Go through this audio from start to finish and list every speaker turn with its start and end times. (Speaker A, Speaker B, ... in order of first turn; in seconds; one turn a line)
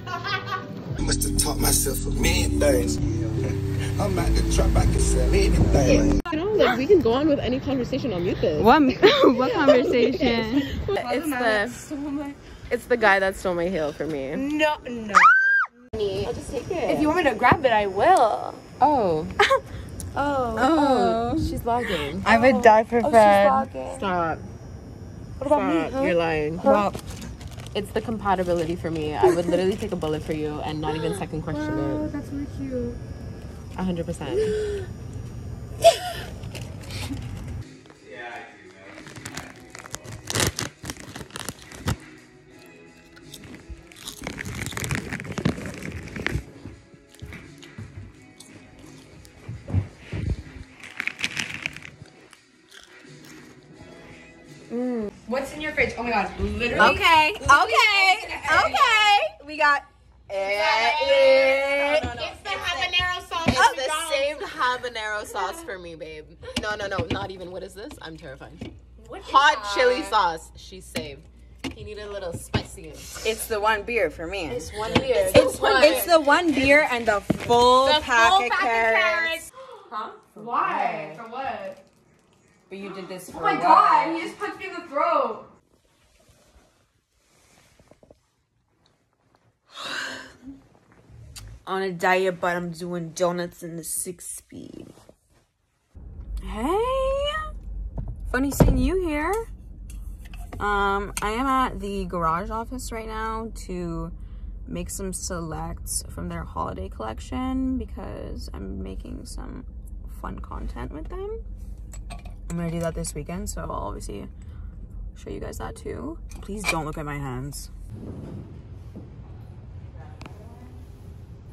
Speaker A: 1.0-6.2
Speaker B: 5.7-8.7
Speaker C: 8.6-10.8
Speaker B: 9.5-10.1
Speaker B: 10.9-11.8
Speaker D: 11.0-12.4
Speaker B: 12.7-14.4
Speaker D: 14.3-15.5
Speaker B: 15.9-17.2
Speaker D: 16.9-18.6
Speaker B: 18.8-19.3
Speaker D: 20.2-20.7
Speaker C: 20.6-21.6
Speaker B: 20.7-22.3
Speaker C: 22.2-23.7
Speaker D: 22.2-24.1
Speaker B: 23.8-24.5
Speaker D: 25.4-26.8
Speaker B: 25.4-26.8
Speaker C: 26.6-27.0
Speaker B: 27.7-32.1
Speaker D: 31.0-33.0
Speaker B: 33.8-34.6
Speaker D: 34.3-34.6
Speaker B: 54.7-55.1
Speaker D: 55.3-59.1
Speaker C: 56.7-60.4
Speaker B: 60.3-73.2
Speaker D: 60.5-64.7
Speaker C: 61.0-61.9
Speaker D: 69.0-70.2
Speaker C: 73.2-79.4
Speaker B: 74.5-76.5
Speaker D: 74.8-76.0
Speaker B: 77.8-79.4
Speaker D: 79.9-81.8
Speaker C: 80.3-81.2
Speaker C: 82.7-84.4
Speaker D: 83.3-85.5
Speaker C: 91.7-94.9
Speaker C: 96.4-97.5
Speaker C: 98.3-99.5
Speaker C: 100.6-104.2
Speaker C: 104.7-111.4
Speaker C: 112.5-114.3
Speaker C: 115.2-117.7